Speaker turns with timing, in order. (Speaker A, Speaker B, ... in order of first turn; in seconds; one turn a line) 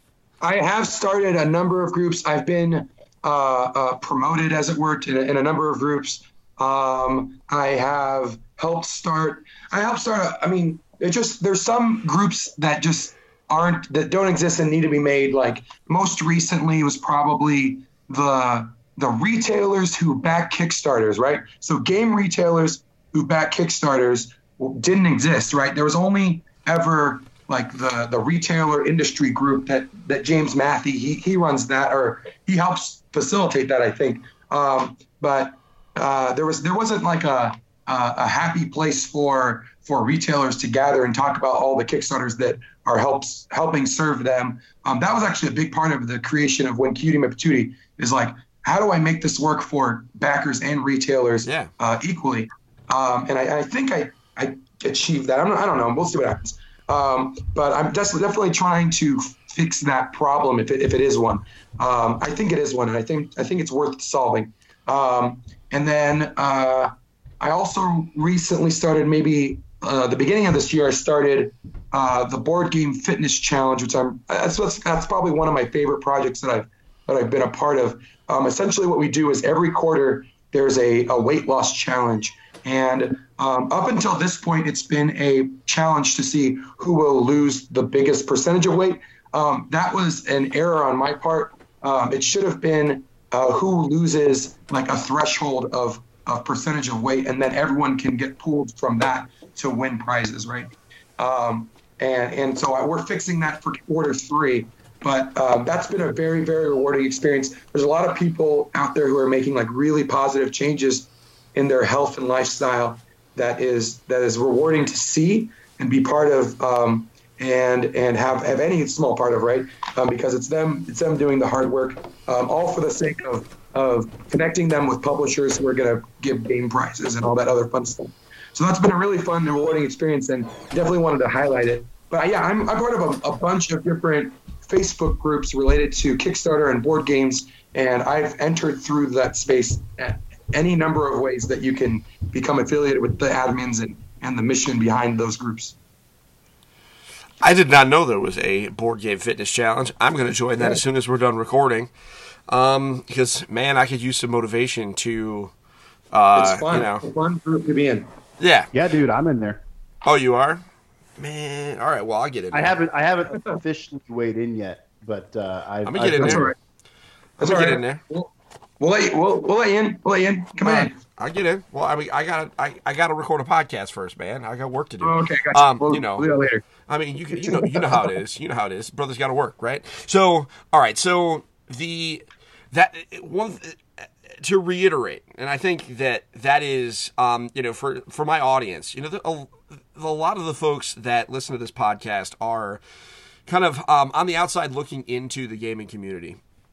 Speaker A: 0.4-145.8
Speaker B: 51.4-51.7
Speaker B: 147.4-151.9
Speaker B: 152.5-155.5
Speaker B: 156.1-157.0
Speaker A: 156.3-158.1
Speaker B: 158.4-158.7
Speaker C: 158.7-159.6
Speaker B: 160.0-160.6
Speaker B: 161.2-162.8
Speaker C: 162.5-166.5
Speaker B: 165.8-166.5
Speaker A: 166.2-166.5
Speaker A: 167.4-170.9
Speaker B: 167.4-168.0
Speaker B: 170.6-176.3
Speaker A: 175.0-176.7
Speaker B: 176.8-192.8
Speaker A: 177.3-178.1
Speaker B: 193.5-196.4